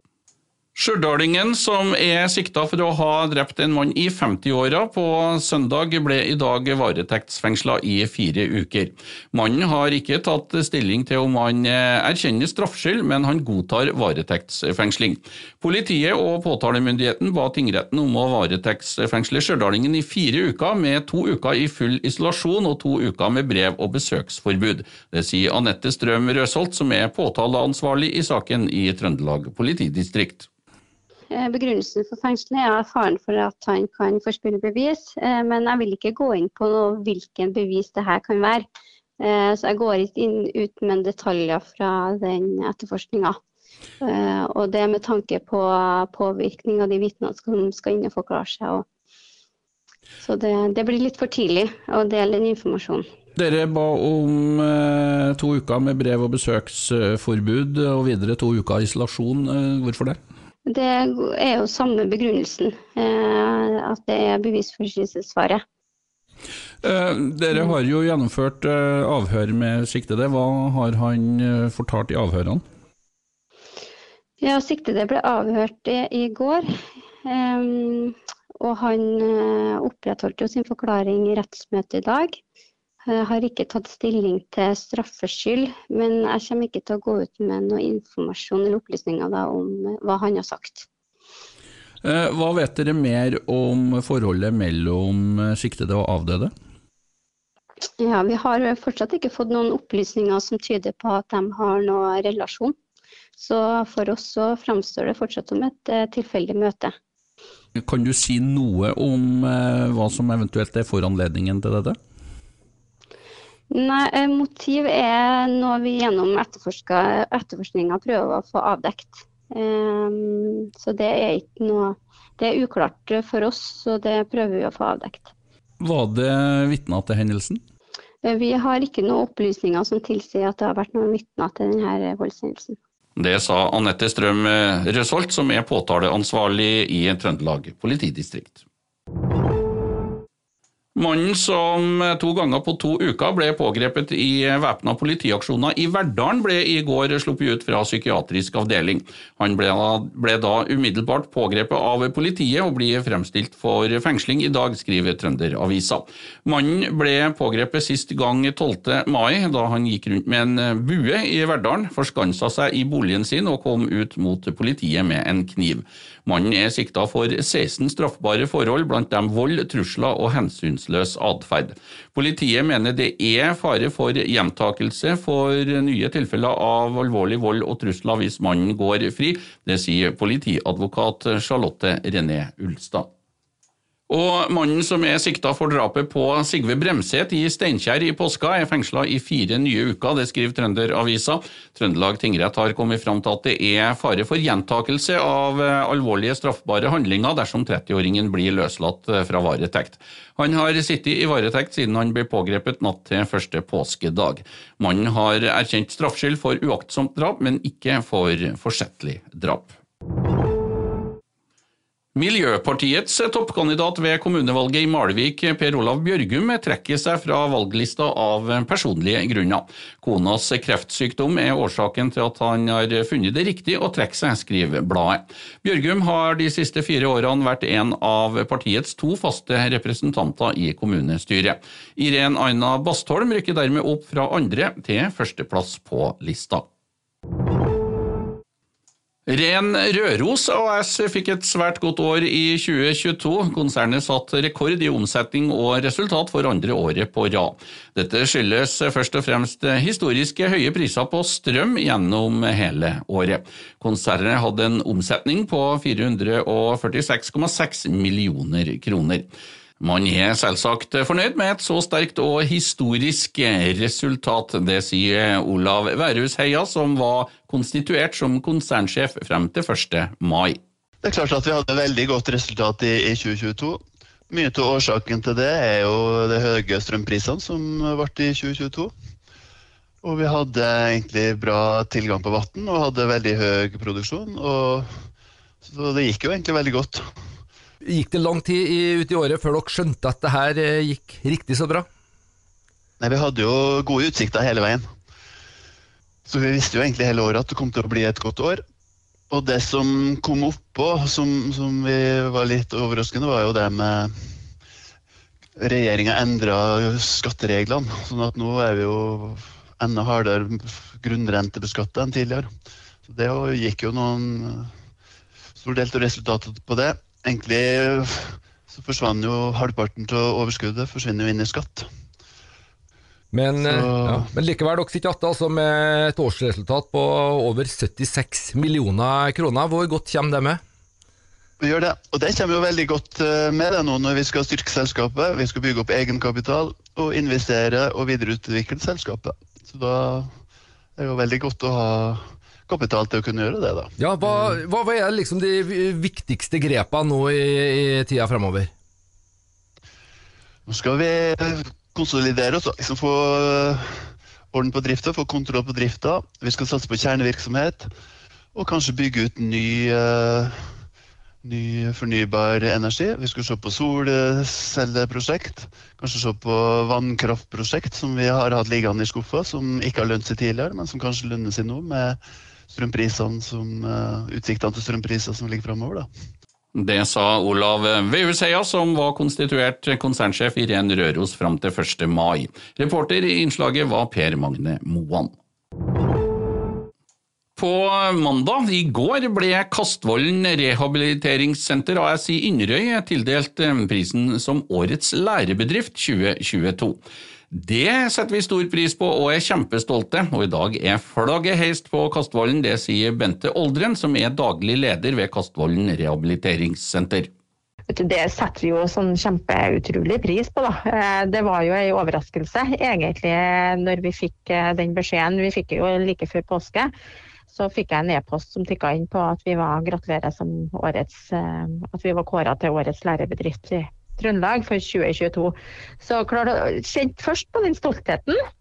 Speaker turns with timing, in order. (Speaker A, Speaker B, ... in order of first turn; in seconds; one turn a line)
Speaker A: 0.7-30.5
Speaker B: 31.3-38.7
Speaker B: 39.2-43.4
Speaker B: 44.0-48.9
Speaker B: 50.2-53.0
Speaker A: 53.4-60.2
Speaker B: 60.6-65.6
Speaker A: 66.8-72.6
Speaker B: 74.4-76.7
Speaker B: 77.2-82.4
Speaker B: 83.0-90.9
Speaker A: 92.0-96.5
Speaker B: 98.0-102.8
Speaker B: 103.4-107.0
Speaker A: 107.7-112.0
Speaker B: 113.7-125.3
Speaker A: 125.8-127.6
Speaker B: 128.2-132.8
Speaker A: 133.2-138.6
Speaker A: 140.9-183.1
Speaker A: 184.1-209.7
Speaker A: 212.1-236.7
Speaker A: 239.3-259.2
Speaker A: 259.8-270.6
Speaker C: 271.0-278.9
Speaker C: 280.0-284.9
Speaker C: 285.6-287.1
Speaker D: 287.8-291.9
Speaker C: 293.0-294.9
Speaker C: 296.2-298.6
Speaker C: 299.3-304.1
Speaker C: 305.6-312.5
Speaker C: 313.1-314.7
Speaker C: 315.6-321.9
Speaker D: 323.3-330.6
Speaker C: 323.6-324.2
Speaker C: 331.6-340.3
Speaker C: 341.0-344.4
Speaker D: 344.0-348.7
Speaker C: 350.6-353.8
Speaker C: 354.5-357.9
Speaker C: 358.5-360.7
Speaker C: 361.4-376.1
Speaker A: 376.7-385.3
Speaker A: 387.6-397.0
Speaker A: 397.5-407.3
Speaker E: 407.9-416.9
Speaker E: 417.5-428.4